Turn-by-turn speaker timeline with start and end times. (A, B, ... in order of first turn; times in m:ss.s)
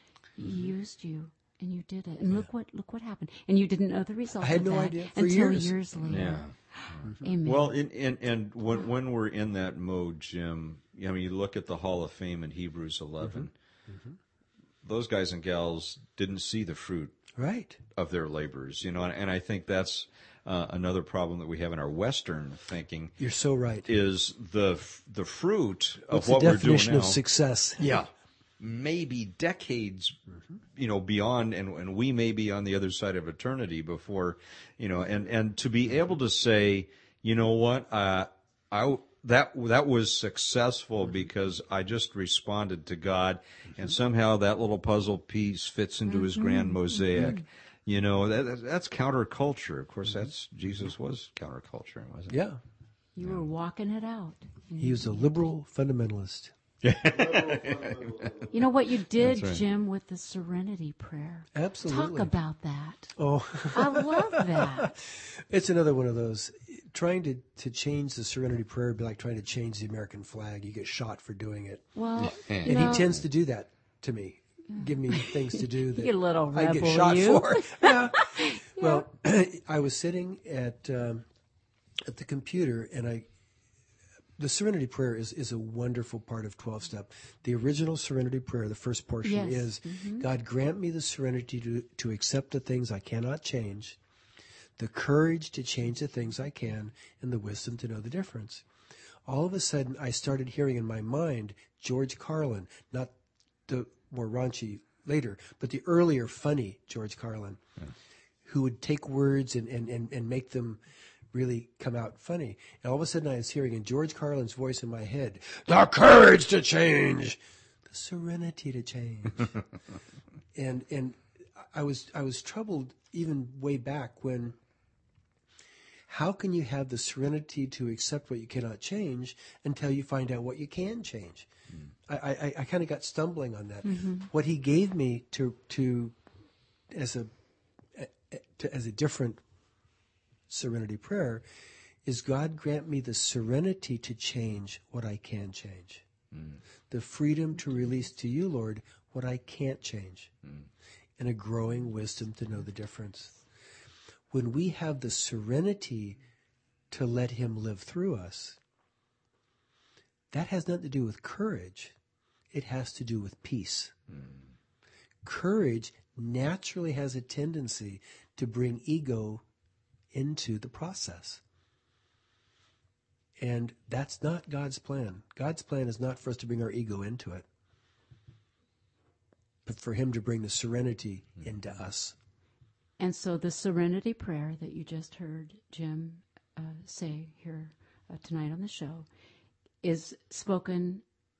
0:00.4-0:07.8 A
0:04.4-0:05.8 B
0:06.1-0:13.5 C
0:13.2-0:14.2 B
0:14.8-0:17.1 C
0:17.4-0:17.8 B
0:18.0-0:23.1 C
0:23.2-0:23.9 B
0:23.8-0:27.2 C
0:26.1-0:28.0 B
0:27.8-0:30.2 C
0:30.8-0:52.4 C
0:46.1-0:47.4 A
0:52.3-0:52.6 B
0:53.2-0:55.5 A
0:54.8-0:56.5 B
0:56.8-0:58.5 C
0:58.5-1:03.1 A
0:59.2-0:59.6 C
1:01.5-1:02.3 B
1:03.2-1:21.2 B
1:03.7-1:05.0 A
1:12.0-1:13.1 A
1:12.2-1:13.0 C
1:14.7-1:19.0 A
1:22.0-1:23.3 B
1:24.4-1:34.0 B
1:29.2-1:30.3 A
1:34.8-1:38.6 B
1:39.2-1:43.1 B
1:43.7-1:47.6 B
1:48.4-1:50.8 B
1:51.3-1:59.5 B
2:00.5-2:04.6 B
2:06.1-2:11.5 B
2:12.1-2:16.2 B
2:13.8-2:14.3 A
2:16.9-2:17.3 B
2:17.9-2:19.4 B
2:20.5-2:21.4 B
2:22.0-2:26.0 B
2:26.3-2:26.6 C
2:26.9-2:30.3 B
2:31.2-2:33.4 B
2:34.3-2:36.2 B
2:36.9-2:38.6 B
2:40.3-2:41.9 B
2:42.5-2:43.9 B
2:45.2-2:49.4 B
2:50.1-2:51.4 B
2:53.4-2:57.4 B
2:59.6-3:02.2 B
3:03.0-3:09.0 A
3:09.8-3:11.0 A